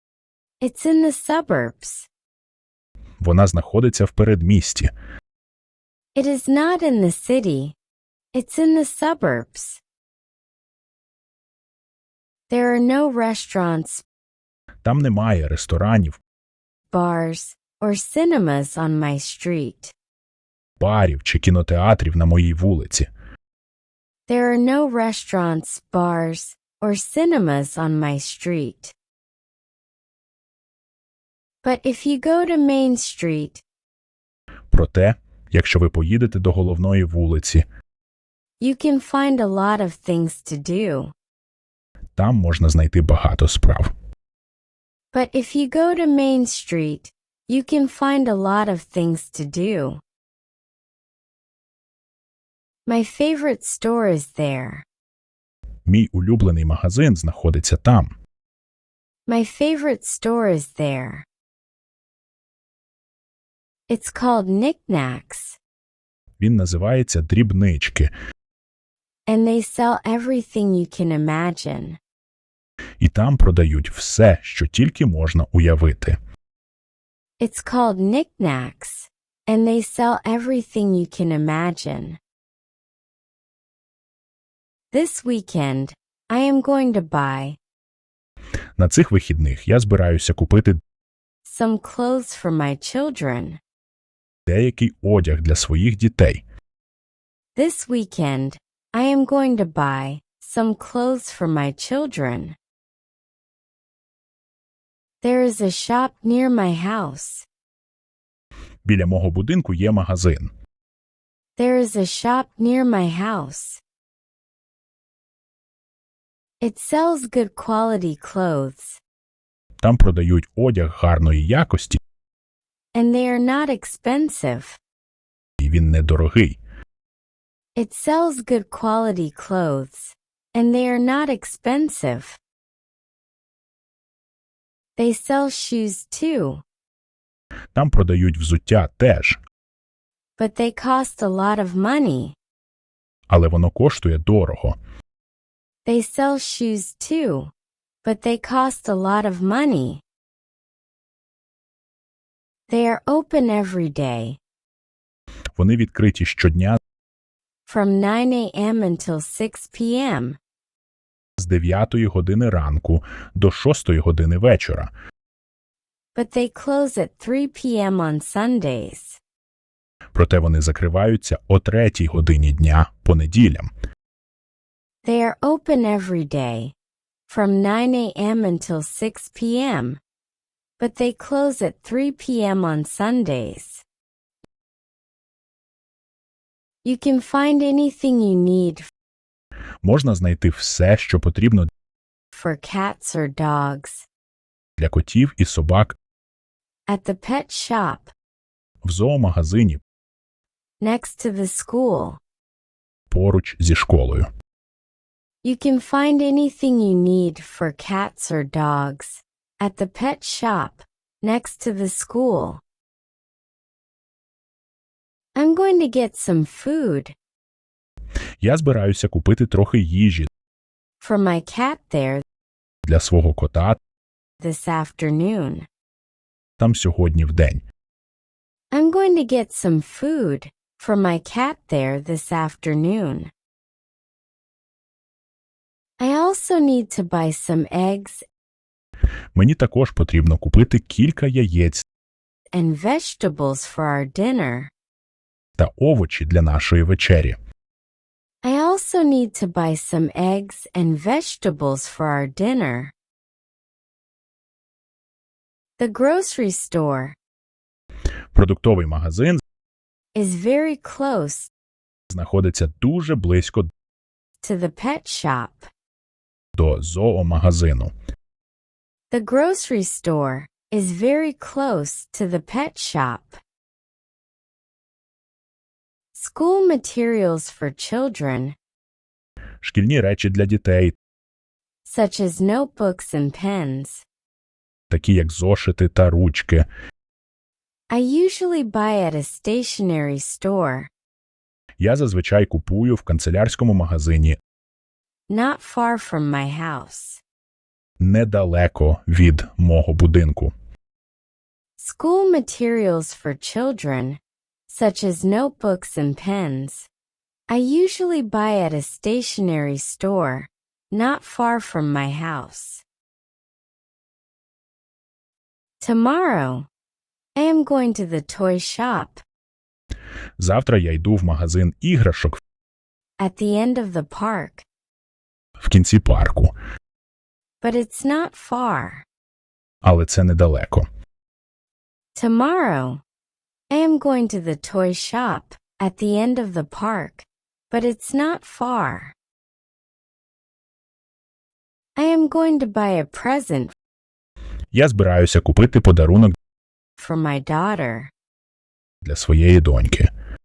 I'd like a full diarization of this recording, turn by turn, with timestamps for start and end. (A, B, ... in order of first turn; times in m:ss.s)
0:00.6-0:02.1 A
0:03.2-0:04.9 B
0:06.1-0:07.8 A
0:08.3-0:09.8 A
0:12.5-0:14.0 A
0:14.8-0:16.2 B
0:16.9-0:19.9 A
0:20.8-0:23.1 B
0:24.3-0:28.9 A
0:31.6-0:33.6 A
0:34.7-0:37.6 B
0:38.6-0:41.1 A
0:42.2-0:43.9 B
0:45.1-0:50.0 A
0:52.8-0:54.8 A
0:55.8-0:58.1 B
0:59.3-1:01.2 A
1:03.9-1:05.6 A
1:06.4-1:08.1 B
1:09.3-1:12.0 A
1:13.0-1:16.2 B
1:17.4-1:22.2 A
1:24.9-1:27.6 A
1:28.8-1:30.8 B
1:31.4-1:33.6 A
1:34.5-1:36.4 B
1:37.6-1:42.6 A
1:45.2-1:47.4 A
1:48.8-1:50.5 B
1:51.6-1:53.8 A
1:56.6-1:59.0 A
1:59.8-2:02.0 B
2:02.9-2:04.8 A
2:05.6-2:06.6 B
2:07.8-2:12.4 A
2:15.0-2:16.6 A
2:17.7-2:19.4 B
2:20.4-2:22.4 A
2:23.3-2:24.8 B
2:25.8-2:27.5 A
2:28.0-2:30.0 A
2:32.7-2:34.4 A
2:35.5-2:36.8 B
2:37.7-2:40.4 A
2:41.4-2:44.9 B
2:46.1-2:49.2 A
2:50.1-2:53.7 B
2:55.0-2:56.7 A
2:57.3-3:00.0 A
3:00.8-3:03.8 A
3:06.8-3:08.9 A
3:09.8-3:11.7 B
3:12.3-3:14.1 A
3:14.8-3:16.0 B
3:16.9-3:18.1 A
3:18.8-3:19.8 B
3:20.8-3:22.2 A
3:23.1-3:24.3 B
3:25.4-3:32.6 A
3:35.4-3:37.1 A
3:38.4-3:40.3 B
3:41.0-3:42.2 A
3:42.8-3:43.8 B
3:44.4-3:45.7 A
3:46.6-3:47.6 B
3:48.7-3:53.3 A
3:56.0-3:58.2 A
3:59.3-4:01.8 B
4:02.5-4:04.7 A
4:05.6-4:07.4 B
4:08.4-4:12.9 A
4:15.8-4:17.2 A
4:18.3-4:19.4 B
4:20.1-4:21.5 A
4:22.1-4:23.7 B
4:24.4-4:25.7 A
4:26.5-4:27.9 B
4:29.1-4:33.4 A
4:36.1-4:38.6 A
4:39.6-4:41.0 B
4:41.8-4:44.0 A
4:44.9-4:46.6 B
4:47.9-4:50.9 A
4:51.8-4:54.4 B
4:55.3-4:57.2 A
4:58.0-5:00.5 B
5:01.8-5:06.9 A
5:07.5-5:12.8 A
5:15.8-5:16.7 A
5:17.4-5:19.2 A
5:20.4-5:22.4 B
5:23.2-5:24.6 A
5:25.6-5:26.5 B
5:27.6-5:29.0 A
5:29.8-5:30.8 B
5:32.1-5:33.0 A
5:33.7-5:39.1 A
5:42.0-5:43.7 A
5:44.7-5:46.3 B
5:47.0-5:48.1 A
5:49.0-5:50.1 B